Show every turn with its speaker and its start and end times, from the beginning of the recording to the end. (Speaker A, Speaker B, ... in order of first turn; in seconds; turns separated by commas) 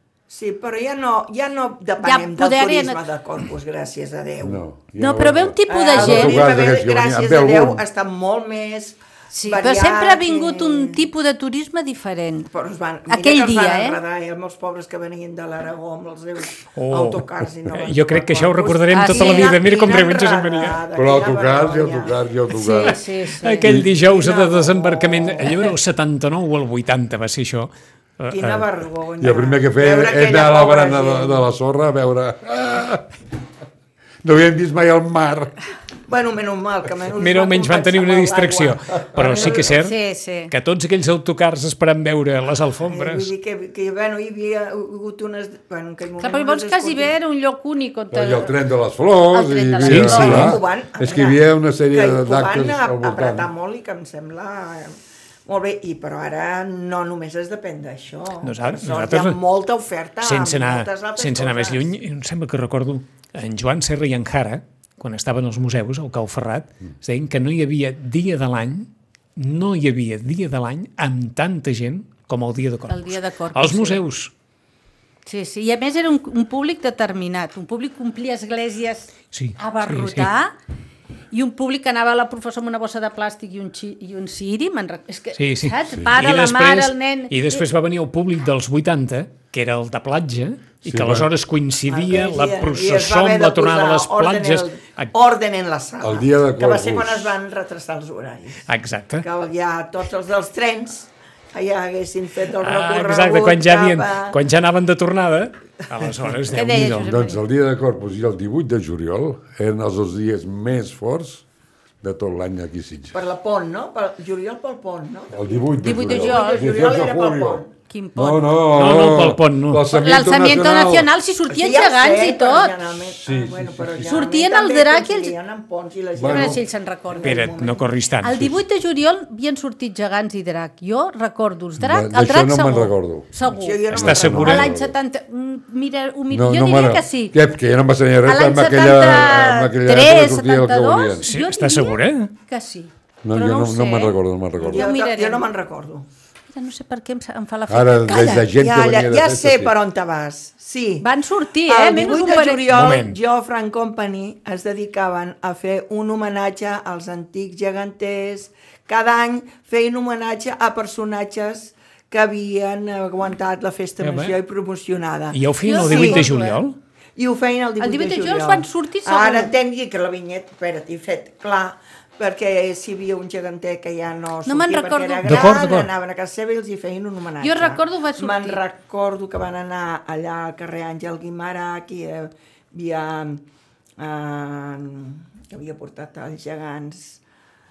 Speaker A: 0.3-4.6, Speaker B: 2.0-3.0, Speaker C: 4.4-7.8, Speaker B: 5.0-6.4, Speaker A: 5.7-11.1, Speaker B: 9.3-12.5, Speaker A: 12.5-22.2, Speaker B: 13.1-14.0, Speaker D: 16.7-20.8, Speaker B: 18.9-19.7, Speaker C: 21.0-23.0, Speaker B: 22.5-23.7, Speaker D: 22.8-28.6, Speaker A: 23.7-25.7, Speaker A: 28.3-31.5, Speaker C: 29.2-33.1, Speaker C: 34.2-35.5, Speaker A: 36.1-39.8, Speaker D: 37.1-40.0, Speaker B: 39.4-40.5, Speaker D: 40.5-43.3, Speaker A: 42.9-47.2, Speaker B: 46.2-48.5, Speaker C: 48.1-53.5, Speaker B: 49.3-50.5, Speaker D: 49.9-50.6, Speaker A: 50.1-55.0, Speaker A: 55.5-61.9, Speaker D: 58.4-59.4, Speaker D: 60.2-74.3, Speaker B: 72.9-74.0, Speaker B: 75.2-80.5, Speaker D: 79.3-80.3, Speaker B: 81.3-87.7, Speaker D: 85.4-95.1, Speaker C: 85.9-86.2, Speaker C: 90.9-91.3, Speaker A: 91.9-98.6, Speaker C: 96.0-97.4, Speaker D: 98.7-99.3, Speaker A: 99.2-104.4, Speaker D: 102.6-107.1, Speaker B: 106.5-107.4, Speaker C: 106.8-111.4, Speaker C: 112.0-113.2, Speaker A: 113.1-117.7, Speaker C: 115.3-117.6, Speaker B: 115.8-116.7, Speaker B: 117.9-118.5, Speaker C: 118.2-121.1, Speaker D: 118.7-119.9, Speaker B: 119.9-122.8, Speaker A: 121.5-127.9, Speaker C: 123.1-124.2, Speaker B: 124.0-125.3, Speaker C: 126.2-126.6, Speaker B: 126.3-127.4, Speaker D: 127.2-128.6, Speaker B: 128.2-137.3, Speaker C: 131.8-133.3, Speaker A: 133.5-134.6, Speaker D: 133.9-134.7, Speaker C: 133.9-134.9, Speaker C: 136.3-141.3, Speaker B: 138.2-145.5, Speaker D: 141.2-142.3, Speaker C: 143.2-144.9, Speaker A: 144.6-146.1, Speaker B: 146.5-148.2, Speaker C: 147.7-149.7, Speaker A: 148.1-151.1, Speaker B: 151.0-152.7, Speaker A: 151.7-166.3, Speaker D: 152.7-153.2, Speaker D: 164.0-164.4, Speaker D: 165.3-166.8, Speaker B: 165.6-166.6, Speaker A: 167.2-183.4, Speaker B: 167.8-169.5, Speaker B: 174.5-175.4, Speaker D: 175.2-175.9, Speaker B: 177.4-178.6, Speaker A: 184.0-187.2